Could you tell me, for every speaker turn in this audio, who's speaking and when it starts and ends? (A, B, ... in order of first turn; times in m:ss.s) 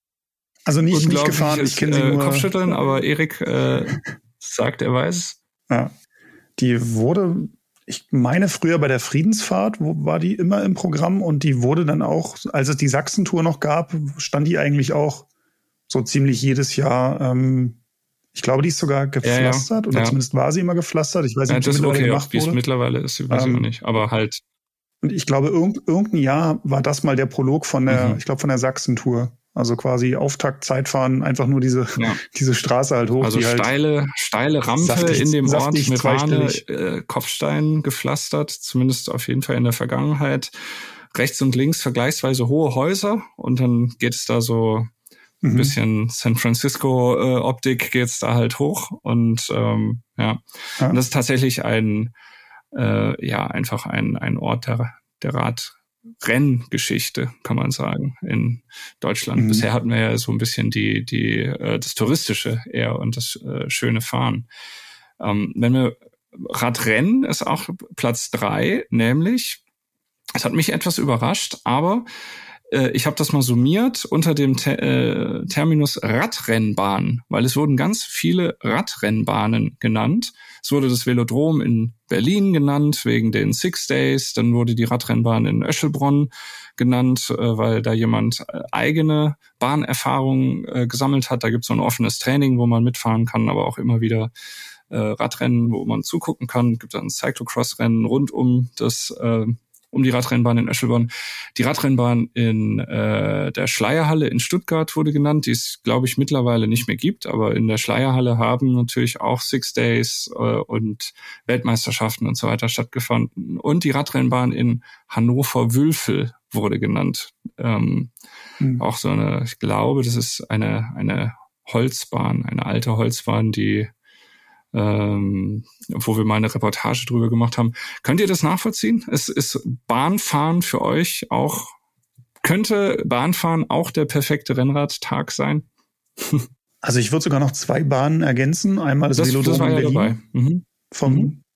0:00.6-0:02.9 A
0:00.9-0:05.4 B
0:06.6-0:15.3 A
0:15.9-0:17.8 A
0:18.3-0:22.6 A
0:19.2-0:20.2 B
0:21.5-0:24.4 B
0:23.3-0:23.6 A
0:25.0-0:33.7 A
0:27.9-0:28.2 B
0:33.2-0:40.5 B
0:34.8-0:36.6 A
0:41.1-0:44.9 B
0:45.4-0:45.8 A
0:45.5-0:52.1 B
0:52.7-1:04.5 B
0:59.4-0:59.7 A
1:05.2-1:09.6 B
1:10.4-1:12.0 B
1:12.7-1:34.3 B
1:34.9-1:58.1 B
1:58.8-2:03.9 B
2:04.7-2:11.7 B
2:12.4-2:15.6 B
2:16.2-2:16.4 B
2:16.8-2:20.2 A
2:19.2-2:21.3 B
2:20.9-2:21.4 A